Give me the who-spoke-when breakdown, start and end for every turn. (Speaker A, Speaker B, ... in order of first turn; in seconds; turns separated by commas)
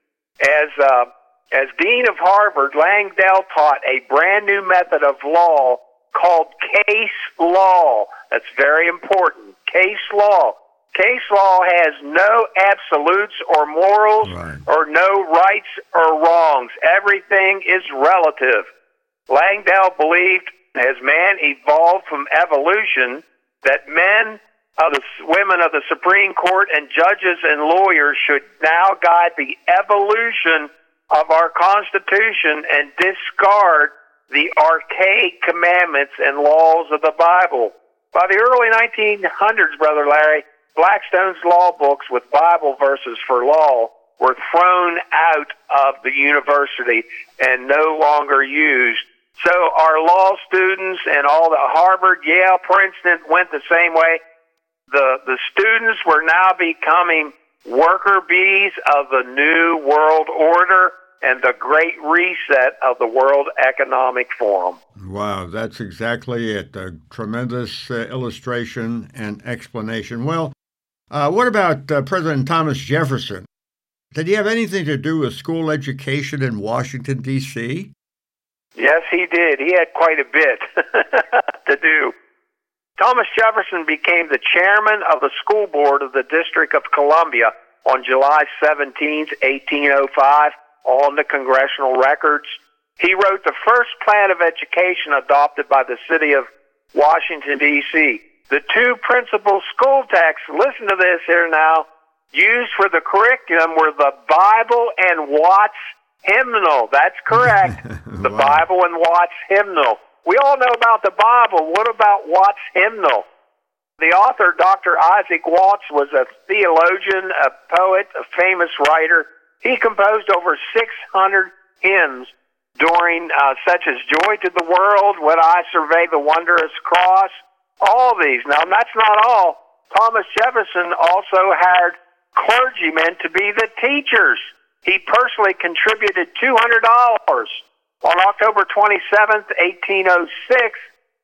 Speaker A: 0.4-18.7, Speaker B: 14.2-14.6, Speaker A: 19.3-54.2, Speaker A: 54.9-64.8, Speaker B: 65.0-70.5, Speaker B: 71.1-73.5, Speaker B: 74.1-77.9, Speaker A: 78.8-82.1, Speaker A: 83.0-113.3, Speaker B: 107.4-108.7, Speaker A: 114.0-140.8